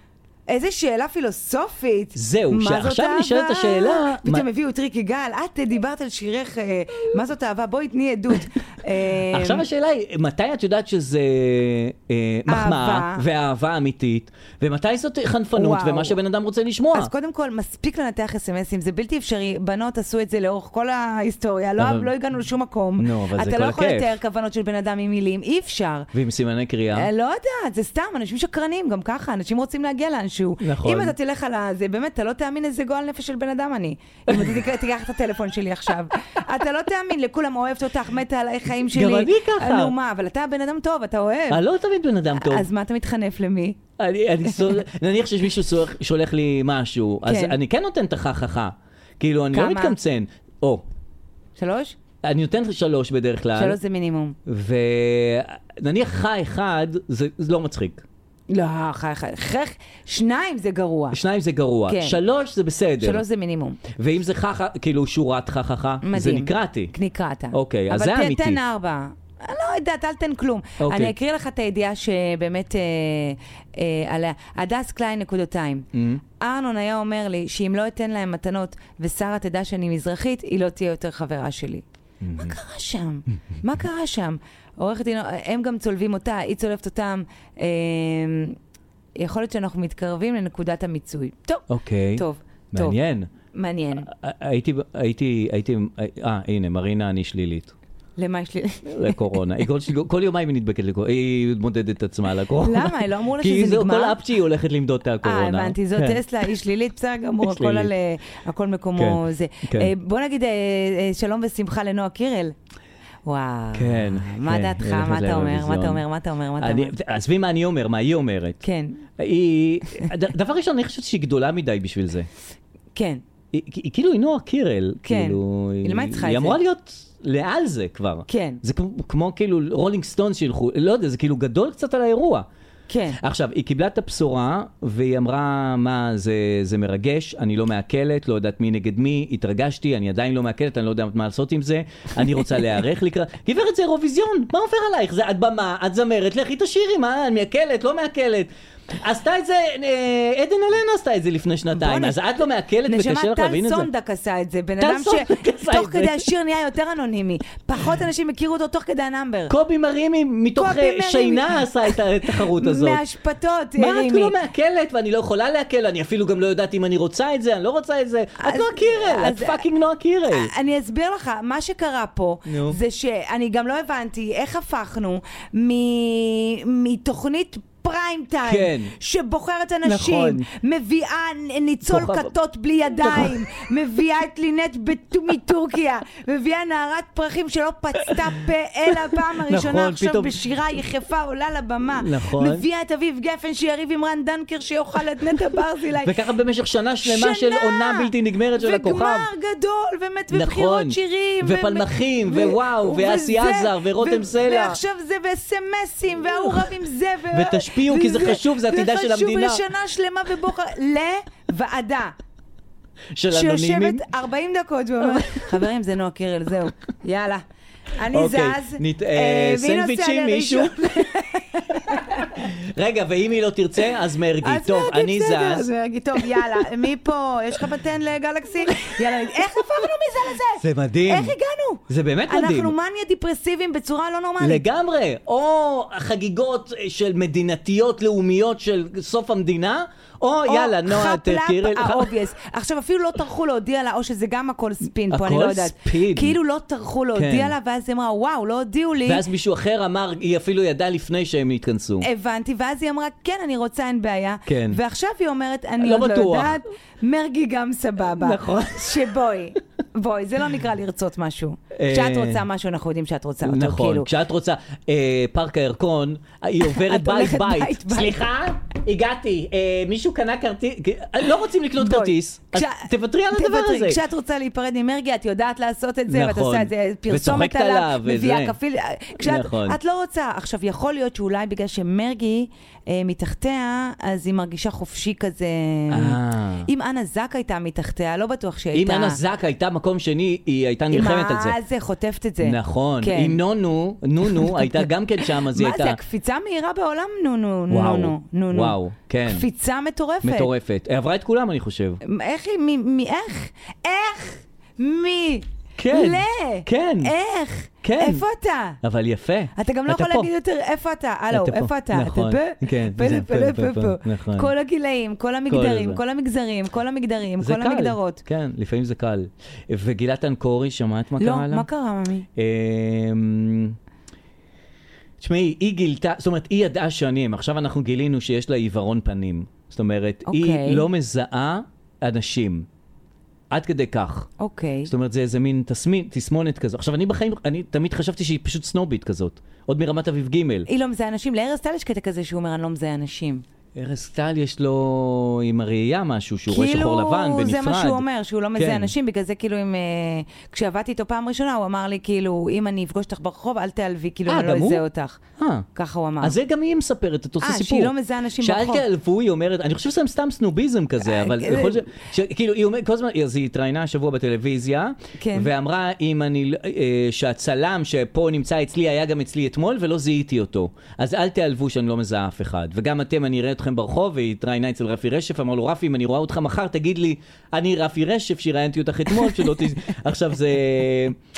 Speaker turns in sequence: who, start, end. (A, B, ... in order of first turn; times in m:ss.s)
0:00.5-0:09.6 A
0:02.1-0:04.5 B
0:09.3-0:17.1 B
0:12.5-0:13.2 A
0:15.5-0:16.2 A
0:16.9-0:26.1 A
0:21.8-0:22.1 B
0:23.0-0:24.2 B
0:26.1-0:27.1 B
0:26.9-0:41.6 A
0:30.6-0:31.1 B
0:34.3-0:34.6 B
0:38.9-0:39.9 B
0:41.5-0:42.6 B
0:42.3-0:43.8 A
0:44.0-0:50.8 B
0:47.2-0:47.6 A
0:49.5-0:50.0 A
0:51.6-0:52.0 A
0:52.2-0:53.8 B
0:53.5-0:54.4 A
0:54.4-0:58.0 B
0:58.5-1:01.2 A
1:01.1-1:03.2 B
1:01.9-1:02.2 A
1:03.0-1:03.8 A
1:03.9-1:06.9 B
1:06.0-1:15.9 A
1:07.5-1:08.6 B
1:10.8-1:11.1 B
1:15.9-1:16.2 B
1:16.4-1:21.8 A
1:22.2-1:22.6 B
1:22.4-1:28.6 A
1:29.2-1:33.0 A
1:31.7-1:33.3 B
1:33.5-1:34.1 A
1:34.0-1:37.7 B
1:38.2-1:39.3 A
1:38.8-1:46.2 B
1:42.6-1:44.2 A
1:45.2-1:52.5 A
1:47.4-1:47.9 B
1:49.0-1:49.9 B
1:53.2-1:56.9 A
1:53.7-1:56.0 B
1:56.6-1:58.6 B
1:58.6-1:59.0 A
1:59.2-2:02.3 B
2:02.9-2:03.2 A
2:03.5-2:12.4 B
2:05.0-2:06.6 A
2:08.3-2:08.6 A
2:12.9-2:13.2 A
2:13.2-2:33.9 B
2:31.7-2:32.2 A
2:32.8-2:39.5 A
2:34.8-2:36.3 B
2:39.5-2:43.0 B
2:40.6-2:44.4 A
2:43.8-2:50.5 B
2:48.4-2:49.6 A
2:50.3-3:16.2 A
2:52.5-2:52.8 B
2:58.4-2:58.9 B
2:59.8-3:00.5 B
3:01.8-3:02.3 B
3:02.9-3:03.4 B
3:09.1-3:10.4 B
3:11.9-3:12.6 B
3:16.0-3:19.3 B
3:17.0-3:32.1 A
3:20.3-3:24.8 B
3:27.3-3:29.6 B
3:33.1-3:34.0 B
3:33.3-3:37.4 A
3:35.1-3:35.5 B
3:38.0-3:42.3 A
3:38.1-3:41.1 B
3:41.8-3:45.7 B
3:44.4-3:54.7 A
3:48.8-3:49.3 B
3:50.6-3:51.3 B
3:51.9-3:52.7 B
3:54.4-4:02.1 B
4:00.4-4:09.2 A
4:05.1-4:06.4 B
4:07.1-4:07.5 B
4:09.0-4:12.1 B
4:12.0-4:24.1 A
4:14.4-4:14.8 B
4:15.8-4:16.6 B
4:18.2-4:19.0 B
4:21.7-4:22.4 B
4:23.4-4:34.0 B
4:26.6-4:28.2 A
4:31.8-4:49.2 A
4:36.1-4:38.6 B
4:39.2-4:39.8 B
4:45.9-4:46.7 B
4:48.7-4:51.6 B
4:50.9-4:53.4 A
4:52.4-4:56.0 B
4:54.2-4:58.8 A
4:57.7-4:59.4 B
4:59.3-5:00.5 A
5:00.2-5:02.0 B
5:02.0-5:08.8 A
5:05.8-5:07.1 B
5:07.8-5:08.2 B
5:08.8-5:10.3 B
5:09.6-5:18.2 A
5:11.3-5:14.5 B
5:15.5-5:16.0 B
5:17.4-5:21.6 B
5:21.2-5:22.3 A
5:22.4-5:23.8 B
5:25.2-5:32.7 B
5:30.2-5:30.9 A
5:33.5-5:34.3 B
5:34.4-5:34.9 A
5:34.8-5:40.7 B
5:40.7-5:43.4 A
5:43.8-5:48.0 B
5:46.5-5:55.2 A
5:48.6-5:48.9 B
5:54.3-5:54.8 B
5:55.4-5:55.7 B
5:55.7-5:56.4 A
5:56.2-6:21.2 B
5:57.4-5:58.8 A
6:01.0-6:01.8 A
6:05.2-6:05.5 A
6:19.1-6:19.5 A